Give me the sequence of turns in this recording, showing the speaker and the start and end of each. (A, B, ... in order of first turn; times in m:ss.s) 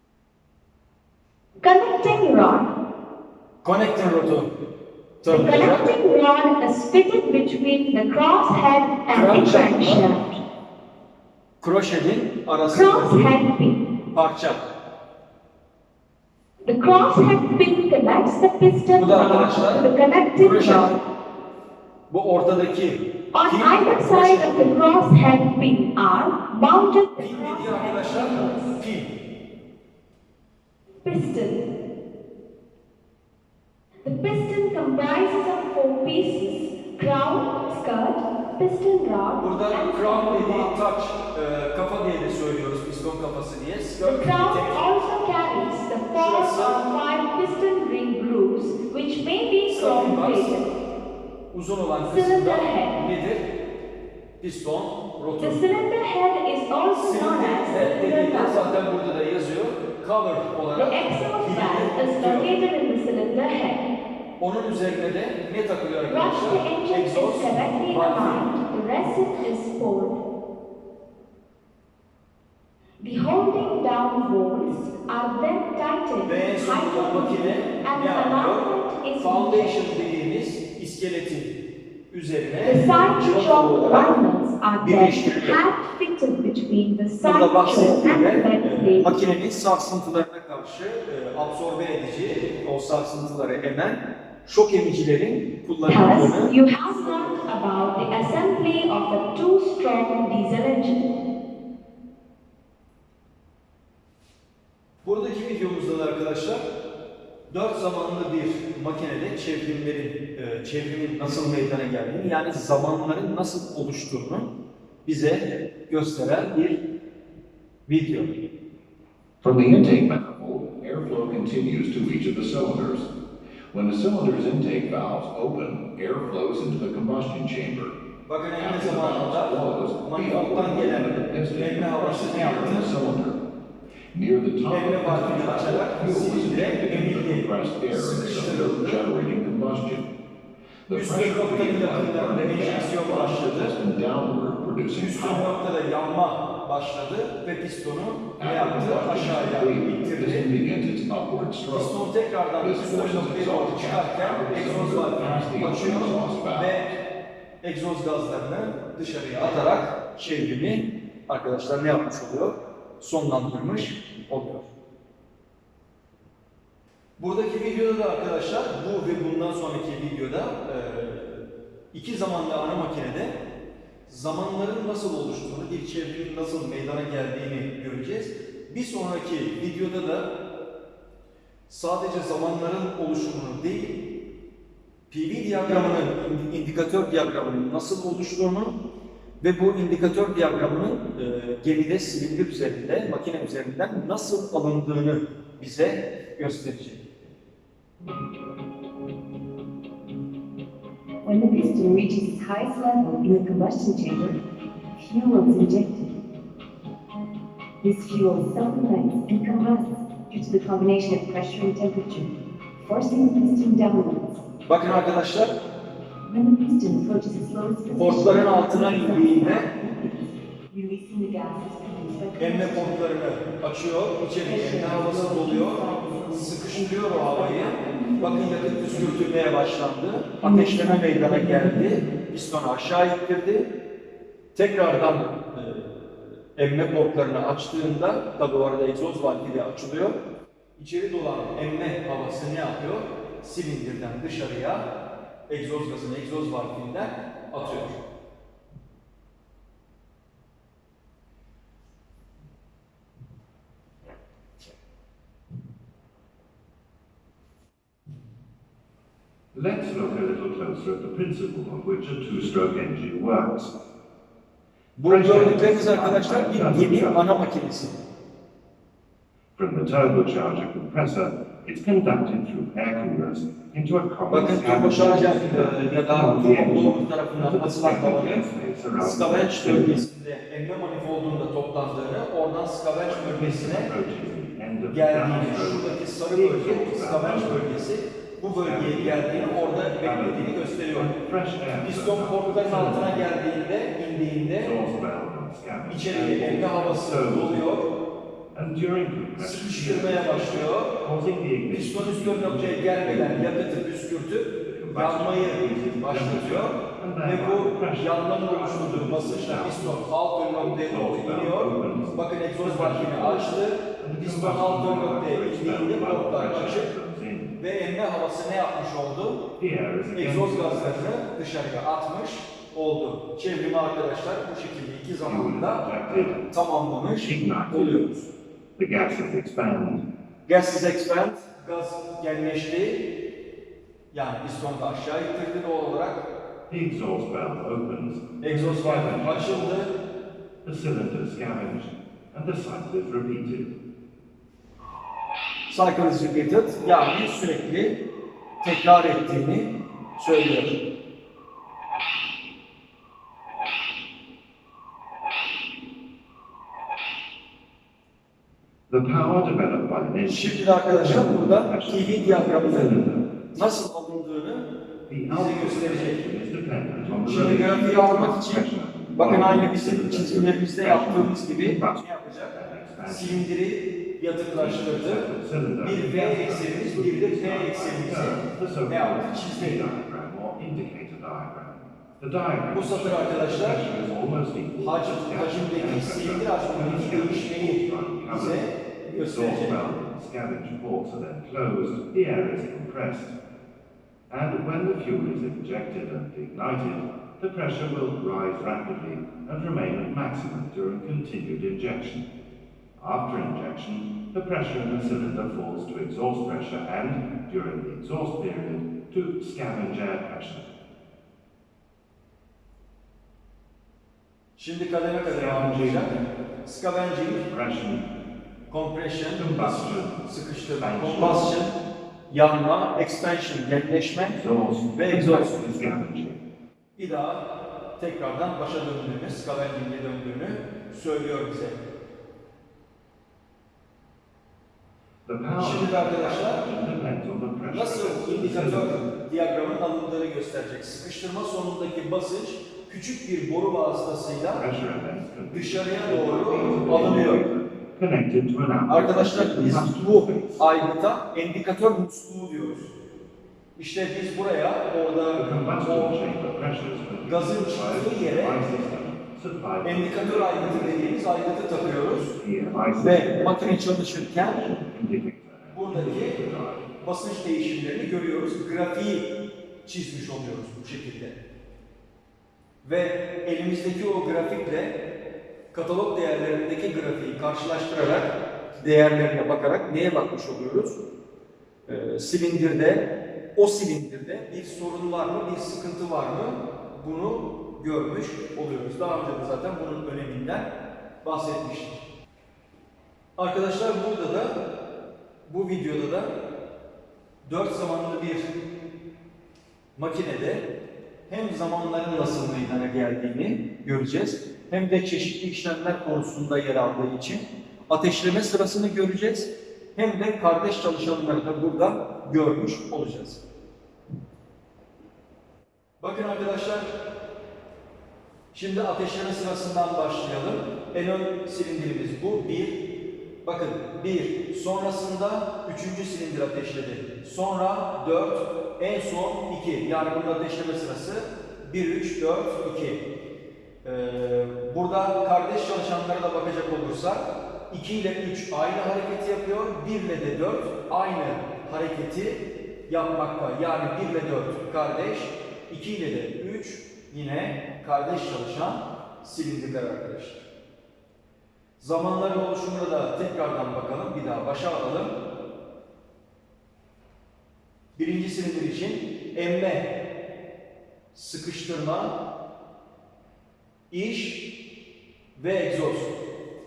0:01.6-0:02.7 A
0:03.6-0:04.5 B
0:05.2-0:05.9 B
0:05.3-0:10.4 A
0:09.1-0:10.1 B
0:11.6-0:13.3 B
0:12.7-0:13.8 A
0:14.1-0:14.6 B
0:16.7-0:20.9 A
0:19.0-0:21.0 B
0:22.1-0:24.8 B
0:23.3-0:28.8 A
0:27.2-0:29.1 B
0:31.0-0:31.6 A
0:34.0-0:40.8 A
0:39.4-0:45.0 B
0:44.0-0:50.7 A
0:46.1-0:46.8 B
0:49.7-0:50.6 B
0:51.5-0:53.4 B
0:52.0-0:53.0 A
0:54.4-0:55.7 B
0:55.4-0:58.7 A
0:56.9-1:02.5 B
1:00.8-1:03.8 A
1:04.4-1:08.5 B
1:06.1-1:10.2 A
1:13.0-1:19.9 A
1:16.2-1:18.7 B
1:19.2-1:21.6 B
1:22.1-1:24.2 B
1:22.6-1:29.2 A
1:24.8-1:25.6 B
1:27.2-1:37.5 B
1:35.9-1:41.1 A
1:45.0-1:46.6 B
1:47.5-1:54.5 B
1:55.0-1:56.8 B
1:57.9-1:58.3 B
1:59.4-2:03.1 C
2:03.7-2:08.0 C
2:08.2-2:12.9 B
2:08.6-2:13.4 C
2:14.1-2:20.1 C
2:14.7-2:19.0 B
2:20.9-2:25.5 C
2:20.9-2:23.7 B
2:24.9-2:30.5 B
2:28.4-2:31.9 C
2:31.7-2:36.9 B
2:32.6-2:36.8 C
2:37.6-2:44.7 B
2:47.2-2:53.4 B
2:54.1-3:00.4 B
3:01.7-3:04.0 B
3:05.1-3:08.8 B
3:09.4-3:17.0 B
3:21.2-3:24.4 D
3:24.9-3:26.2 D
3:27.8-3:34.4 D
3:34.7-3:35.5 B
3:36.2-3:43.0 D
3:37.9-3:39.7 B
3:42.4-3:53.7 B
3:44.4-3:49.2 D
3:50.4-3:52.1 D
3:54.5-4:00.2 B
4:00.8-4:04.9 B
4:05.5-4:08.0 B
4:19.5-4:23.7 E
4:25.0-4:27.2 E
4:25.0-4:28.0 B
4:29.6-4:40.0 E
4:34.3-4:38.4 B
4:39.0-4:43.9 B
4:43.1-4:47.7 E
4:44.9-4:51.1 B
4:48.6-4:53.3 E
4:51.8-4:54.8 B
4:54.6-4:57.7 E
4:55.9-4:57.9 B
4:58.5-5:03.5 E
4:59.4-5:01.0 B
5:01.7-5:16.9 B
5:04.6-5:17.6 E
5:17.6-5:19.5 B
5:19.6-5:21.1 E
5:20.2-5:28.2 B
5:25.2-5:26.5 E
5:27.1-5:28.2 E
5:28.8-5:30.1 E
5:30.5-5:33.1 B
5:34.1-5:36.3 B
5:36.7-5:39.8 E
5:38.4-5:39.9 B
5:40.6-5:43.8 E
5:45.7-5:48.0 B
5:48.6-5:50.8 B
5:58.9-6:03.3 E
6:00.3-6:03.0 B
6:03.5-6:04.7 B
6:05.1-6:13.5 E
6:05.3-6:06.2 B
6:07.2-6:15.3 B
6:14.6-6:28.7 E
6:15.8-6:19.9 B
6:22.7-6:23.9 B
6:24.8-6:29.8 B
6:29.2-6:33.4 E
6:34.3-6:42.3 E
6:43.0-6:50.7 E
6:54.6-6:57.5 B
6:55.2-6:56.1 E
6:57.4-6:58.1 E
6:58.7-7:01.8 B
6:59.3-7:01.5 E
7:02.3-7:05.6 B
7:04.4-7:06.4 E
7:07.0-7:11.8 B
7:15.3-7:19.0 E
7:15.6-7:16.7 B
7:17.7-7:24.6 B
7:24.5-7:30.6 E
7:25.5-7:27.4 B
7:28.9-7:32.9 B
7:33.8-7:36.2 B
7:35.4-7:41.1 E
7:37.3-7:38.6 B
7:39.8-7:42.3 B
7:42.2-7:46.9 E
7:43.0-7:44.6 B
7:45.7-7:46.4 B
7:47.0-7:51.4 B
7:52.8-7:55.0 B
7:55.7-8:01.0 B
8:01.9-8:12.0 B
8:13.4-8:14.6 B
8:15.5-8:16.4 B
8:17.4-8:18.5 B
8:20.0-8:20.7 B
8:21.3-8:33.4 B
8:36.0-8:36.9 B
8:38.5-8:42.9 B
8:43.4-8:53.0 B
8:53.8-9:10.5 B
9:11.8-9:15.2 B
9:18.0-9:20.0 B
9:21.1-9:22.2 B
9:23.9-9:24.6 B
9:25.4-9:26.2 B